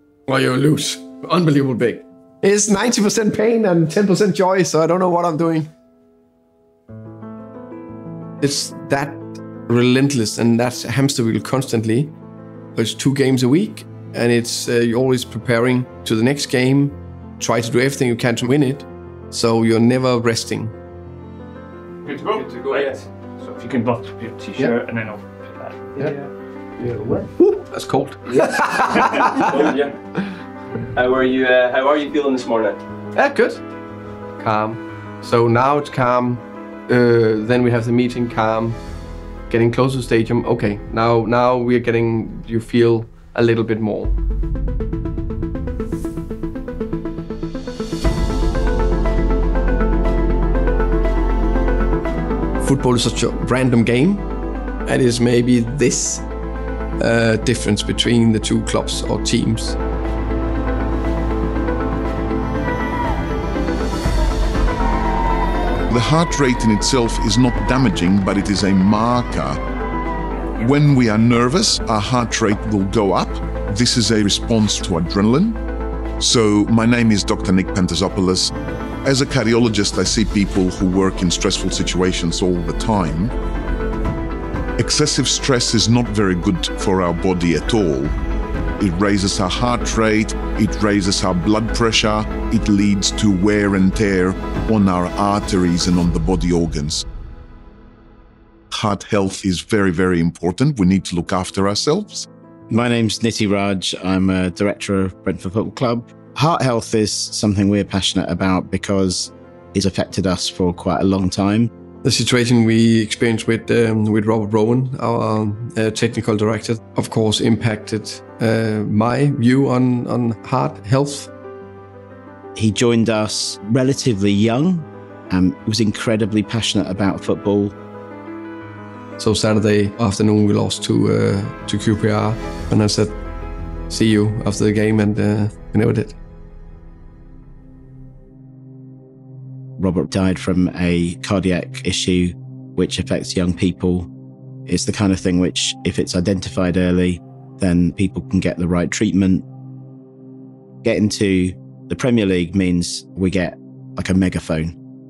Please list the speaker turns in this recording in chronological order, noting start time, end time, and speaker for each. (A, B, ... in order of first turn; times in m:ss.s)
0:00.3-0:05.7 A
0:08.4-0:12.1 A
0:12.7-0:20.7 A
0:22.1-0:26.1 B
0:22.2-0:22.9 A
0:26.8-0:29.7 A
0:26.9-0:27.1 B
0:28.9-0:29.3 B
0:29.3-0:30.0 C
0:30.8-0:32.8 C
0:33.1-0:33.6 A
0:34.4-0:38.8 A
0:39.5-0:44.2 A
0:52.6-0:54.3 A
0:54.8-0:56.3 A
0:57.0-0:59.8 A
1:05.9-1:09.6 D
1:10.6-1:15.6 D
1:16.2-1:18.5 D
1:19.0-1:23.3 D
1:24.8-1:28.1 D
1:28.8-1:37.0 D
1:38.7-1:42.3 D
1:42.7-1:51.7 E
1:52.0-2:01.3 A
2:02.6-2:07.7 E
2:09.2-2:13.2 A
2:13.9-2:16.2 A
2:19.8-2:24.1 E
2:24.7-2:29.4 E
2:30.8-2:34.8 E